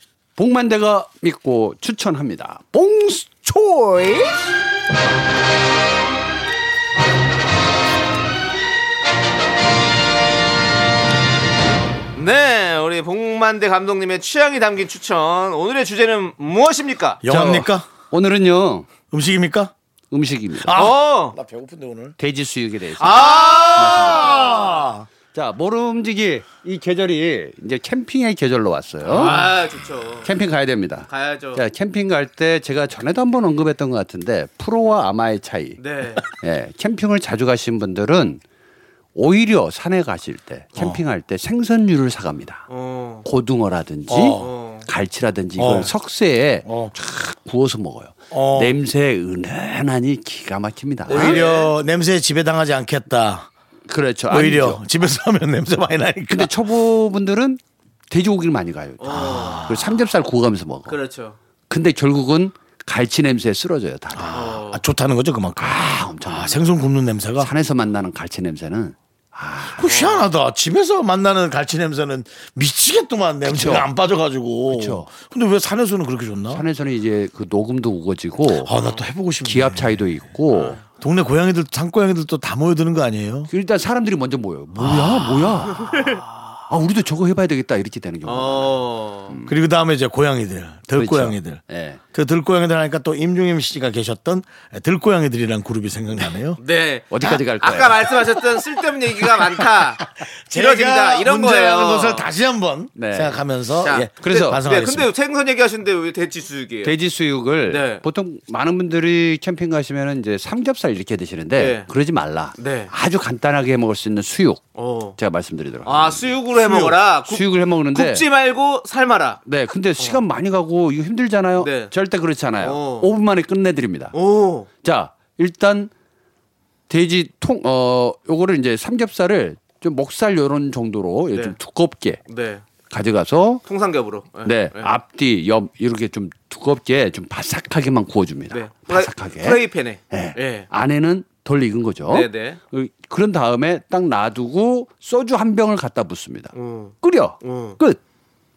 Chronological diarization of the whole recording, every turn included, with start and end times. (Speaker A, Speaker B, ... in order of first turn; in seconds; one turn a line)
Speaker A: 0.3-4.4
Speaker B: 12.2-17.2
Speaker C: 17.2-17.9
Speaker A: 17.3-18.9
Speaker C: 19.1-19.7
Speaker A: 20.1-20.8
Speaker C: 20.6-22.2
Speaker B: 20.7-21.4
Speaker A: 22.2-24.5
Speaker B: 23.0-24.7
Speaker C: 23.3-25.1
Speaker A: 25.3-29.5
Speaker B: 29.0-30.3
Speaker C: 29.1-29.4
Speaker A: 30.2-38.4
Speaker B: 31.1-31.6
Speaker B: 35.8-36.2
Speaker A: 39.1-42.6
Speaker B: 42.7-43.2
Speaker A: 43.2-51.4
Speaker C: 44.1-44.5
Speaker B: 44.4-44.9
Speaker C: 45.6-45.9
Speaker C: 46.6-46.9
Speaker C: 48.3-48.8
Speaker B: 51.1-51.7
Speaker C: 51.1-53.5
Speaker A: 53.9-54.8
Speaker C: 54.3-56.5
Speaker A: 56.3-61.0
Speaker B: 59.0-59.7
Speaker C: 59.3-60.0
Speaker B: 60.9-61.4
Speaker A: 61.7-64.4
Speaker C: 64.1-67.5
Speaker B: 64.3-64.8
Speaker A: 65.6-66.7
Speaker A: 67.4-69.9
Speaker C: 69.8-76.6
Speaker B: 69.8-70.3
Speaker A: 73.5-73.9
Speaker A: 74.7-75.1
Speaker A: 76.5-78.7
Speaker C: 78.6-80.0
Speaker A: 79.4-80.8
Speaker B: 80.5-80.8
Speaker C: 80.8-83.5
Speaker A: 83.5-89.5
Speaker C: 84.8-85.5
Speaker B: 85.8-86.2
Speaker B: 88.2-89.3
Speaker C: 89.5-96.6
Speaker A: 91.0-92.0
Speaker B: 96.6-102.3
Speaker A: 97.1-98.3
Speaker C: 100.5-105.1
Speaker A: 103.0-103.4
Speaker B: 103.8-106.9
Speaker A: 104.2-104.6
Speaker A: 106.8-116.4
Speaker B: 107.7-108.0
Speaker B: 111.5-111.9
Speaker B: 112.6-112.9
Speaker B: 114.8-115.2
Speaker B: 115.8-119.4
Speaker C: 116.7-117.0
Speaker A: 116.9-118.2
Speaker A: 119.5-124.1
Speaker B: 121.6-121.9
Speaker B: 122.6-123.1
Speaker B: 124.1-124.7
Speaker A: 124.7-125.9
Speaker A: 126.9-132.2
Speaker B: 132.3-132.6
Speaker A: 132.8-133.6
Speaker B: 133.7-134.9
Speaker A: 134.4-148.0
Speaker B: 138.5-140.7
Speaker B: 142.1-142.6
Speaker B: 146.5-147.8